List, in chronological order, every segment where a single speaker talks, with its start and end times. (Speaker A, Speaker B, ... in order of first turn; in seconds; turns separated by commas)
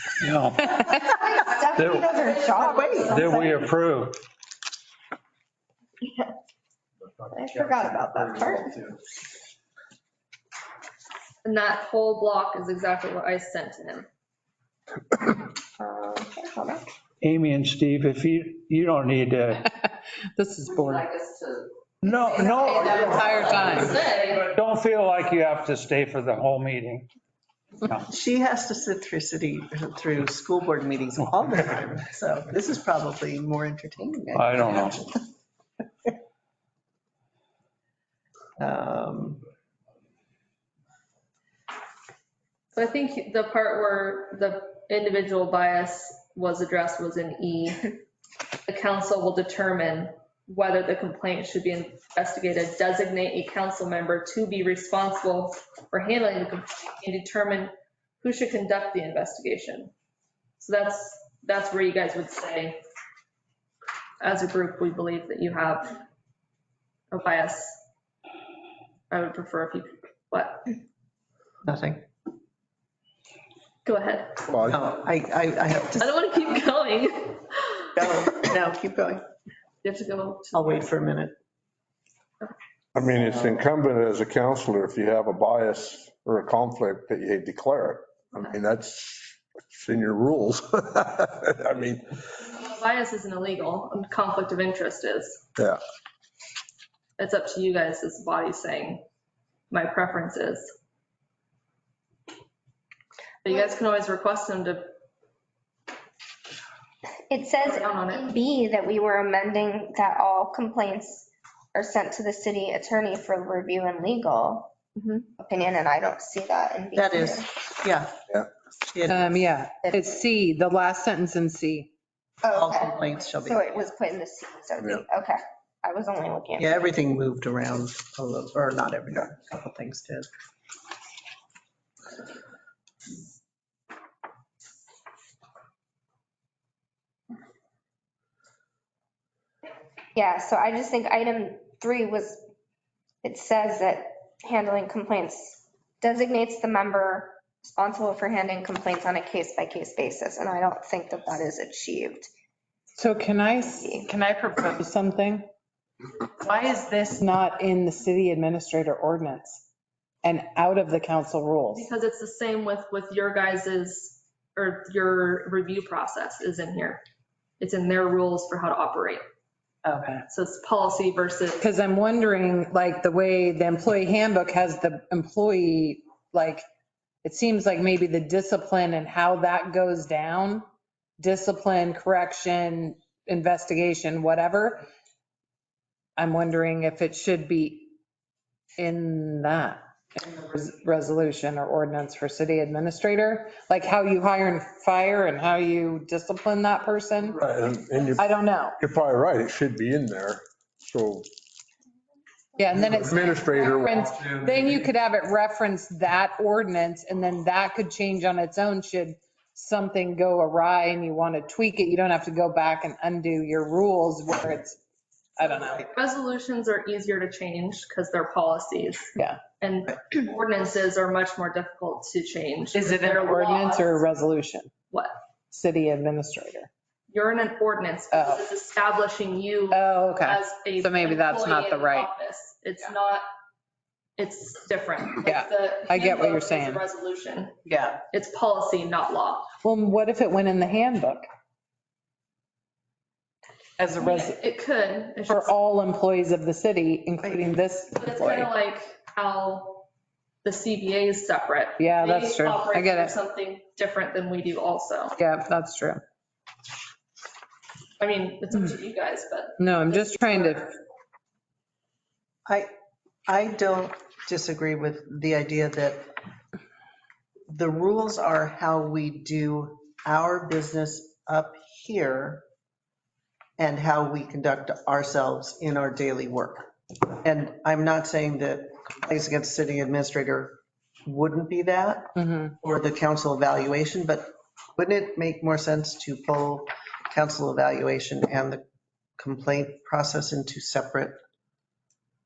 Speaker A: 0.2-1.1, Speaker B: 0.9-3.6, Speaker A: 1.7-2.5, Speaker C: 2.1-3.2, Speaker D: 2.6-3.1, Speaker A: 3.1-4.2, Speaker B: 6.0-6.3, Speaker B: 7.3-8.9, Speaker C: 11.4-14.1, Speaker B: 15.8-16.8, Speaker A: 17.2-19.7, Speaker E: 19.6-21.1, Speaker C: 21.0-21.6, Speaker A: 22.0-27.1, Speaker C: 22.4-24.5, Speaker E: 22.8-24.0, Speaker A: 27.8-28.1, Speaker D: 28.1-35.2, Speaker A: 34.3-35.0, Speaker D: 38.6-39.4, Speaker C: 42.7-48.0, Speaker C: 48.6-59.9, Speaker C: 60.6-62.8, Speaker C: 64.2-66.0, Speaker C: 67.1-67.8, Speaker C: 69.1-70.7, Speaker D: 71.6-72.0, Speaker C: 73.8-74.5, Speaker F: 74.5-74.8, Speaker D: 74.7-76.3, Speaker C: 76.0-78.1, Speaker D: 78.0-79.2, Speaker C: 79.8-80.9, Speaker D: 80.5-81.3, Speaker F: 82.9-92.2, Speaker C: 92.4-95.4, Speaker C: 97.2-99.0, Speaker C: 99.7-100.7, Speaker C: 103.4-104.9, Speaker B: 107.3-114.7, Speaker C: 107.5-108.3, Speaker C: 115.0-115.3, Speaker B: 115.4-117.5, Speaker D: 116.9-118.2, Speaker D: 118.9-119.3, Speaker E: 119.1-121.9, Speaker B: 122.4-126.8, Speaker D: 122.5-123.8, Speaker C: 122.7-123.3, Speaker D: 126.6-130.3, Speaker B: 140.1-142.4, Speaker B: 143.2-152.3, Speaker E: 153.0-155.4, Speaker B: 153.7-154.0, Speaker E: 156.4-159.6, Speaker E: 160.2-161.9, Speaker C: 161.7-167.0, Speaker C: 167.6-169.2, Speaker E: 169.8-170.2, Speaker C: 170.3-171.6, Speaker E: 171.6-176.6, Speaker E: 177.2-180.7, Speaker E: 181.2-184.8, Speaker E: 186.2-187.9, Speaker E: 188.8-197.4, Speaker F: 197.4-198.3, Speaker E: 198.2-198.8, Speaker F: 198.8-201.3, Speaker E: 202.6-214.8, Speaker F: 202.7-204.4, Speaker E: 215.4-215.9, Speaker C: 215.9-224.0, Speaker E: 219.2-219.4, Speaker E: 222.7-224.7, Speaker E: 225.5-226.7, Speaker C: 227.1-233.2, Speaker E: 228.1-228.4, Speaker E: 229.7-232.1, Speaker C: 234.2-237.5, Speaker E: 235.2-236.8, Speaker D: 237.6-238.0, Speaker C: 238.1-239.5, Speaker E: 239.6-241.2, Speaker E: 243.8-244.3, Speaker C: 244.0-245.5, Speaker E: 245.2-248.5, Speaker C: 247.9-249.8, Speaker C: 250.4-255.2, Speaker E: 251.8-253.1, Speaker E: 255.2-256.0, Speaker C: 258.0-260.6, Speaker E: 259.6-260.7, Speaker D: 263.3-266.1, Speaker D: 267.5-272.4, Speaker D: 273.6-276.7, Speaker D: 277.2-288.6, Speaker E: 282.2-282.5, Speaker D: 289.2-291.2